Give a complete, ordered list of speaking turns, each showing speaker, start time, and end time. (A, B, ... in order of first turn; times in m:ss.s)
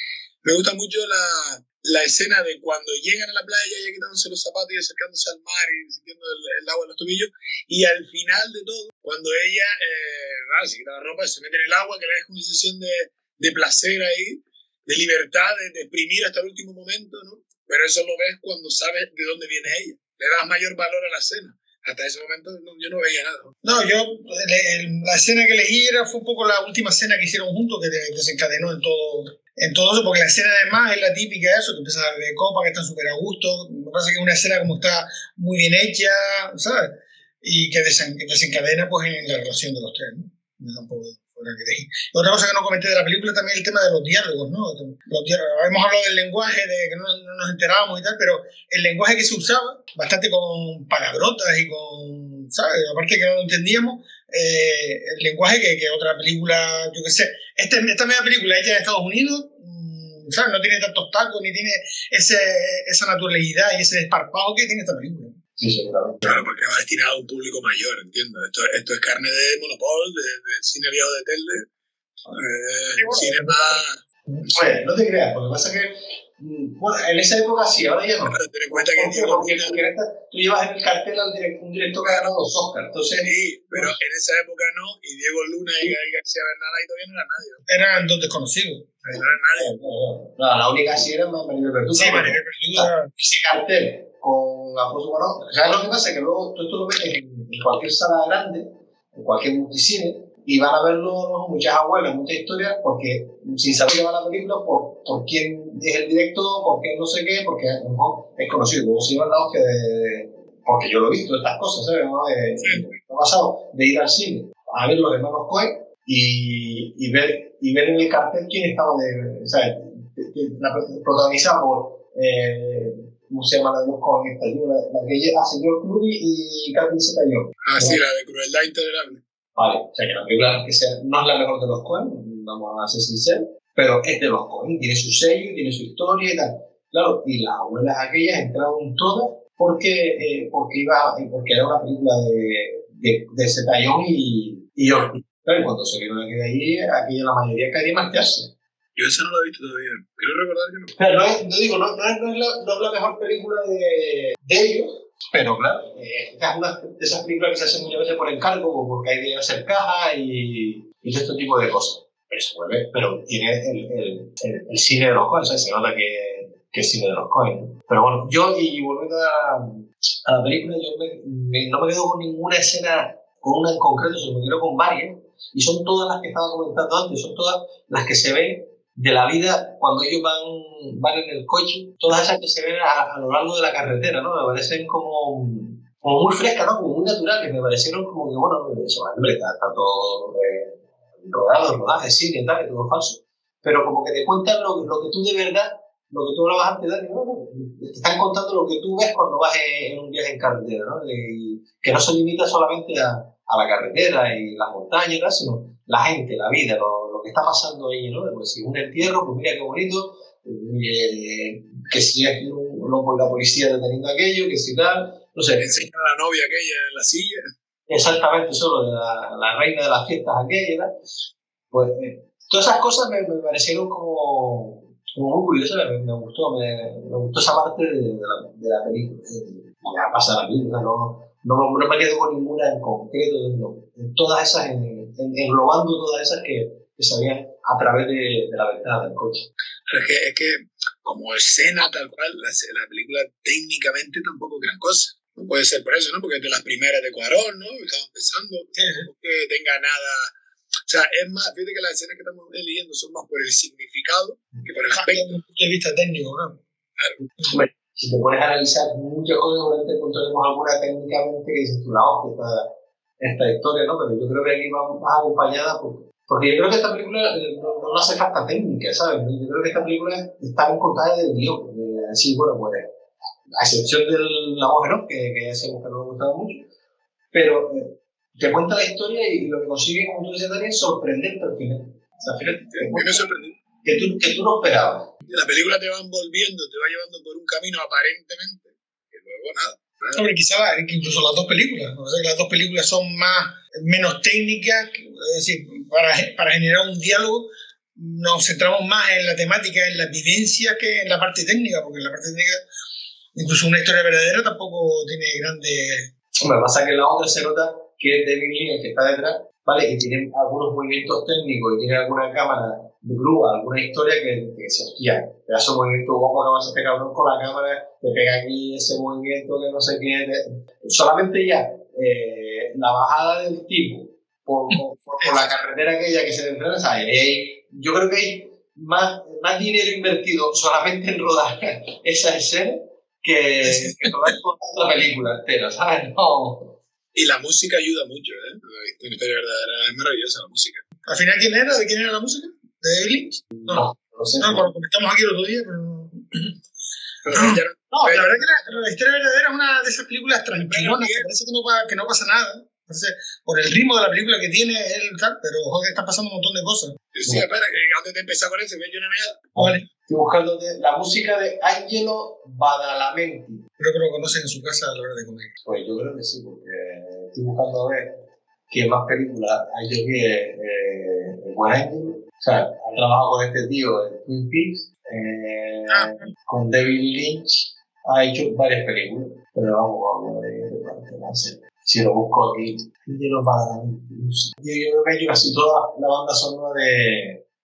0:00.4-0:23.5 A
0:23.6-1:05.4 B
1:05.6-1:06.4 C
1:06.2-1:11.7 A
1:12.3-1:14.6 A
1:12.9-1:14.4 B
1:14.5-1:24.0 C
1:18.2-1:19.8 A
1:22.0-1:22.5 A
1:23.2-1:27.6 A
1:27.7-1:28.9 B
1:29.0-2:08.0 C
1:29.1-1:29.7 A
1:31.9-1:33.1 B
2:07.6-2:09.2 A
2:09.6-2:28.5 C
2:29.0-2:30.9 A
2:31.0-3:35.8 C
3:35.6-3:37.4 A
3:37.9-3:40.9 C
3:41.7-3:59.5 C
3:59.9-4:10.3 A
4:08.8-4:09.1 B
4:10.9-4:15.4 A
4:14.9-4:16.6 B
4:17.5-4:22.7 C
4:23.2-4:32.9 C
4:33.6-4:36.7 C
4:37.3-4:43.2 C
4:42.7-4:43.5 A
4:43.8-4:45.1 C
4:45.3-4:50.2 A
4:50.1-5:02.6 B
5:03.3-5:06.1 B
5:06.4-5:36.8 C
5:24.7-5:25.5 B
5:33.8-5:34.1 B
5:37.1-5:40.8 A
5:41.0-5:43.9 B
5:43.6-5:44.7 C
5:44.4-5:46.6 B
5:47.2-5:48.8 A
5:47.3-5:57.0 B
5:50.6-5:51.3 A
5:57.1-5:59.5 A
5:57.2-5:57.6 C
5:59.5-6:03.6 C
5:59.6-5:59.8 B
6:03.8-6:05.5 B
6:05.6-6:08.1 C
6:08.7-6:27.4 C
6:15.9-6:16.3 B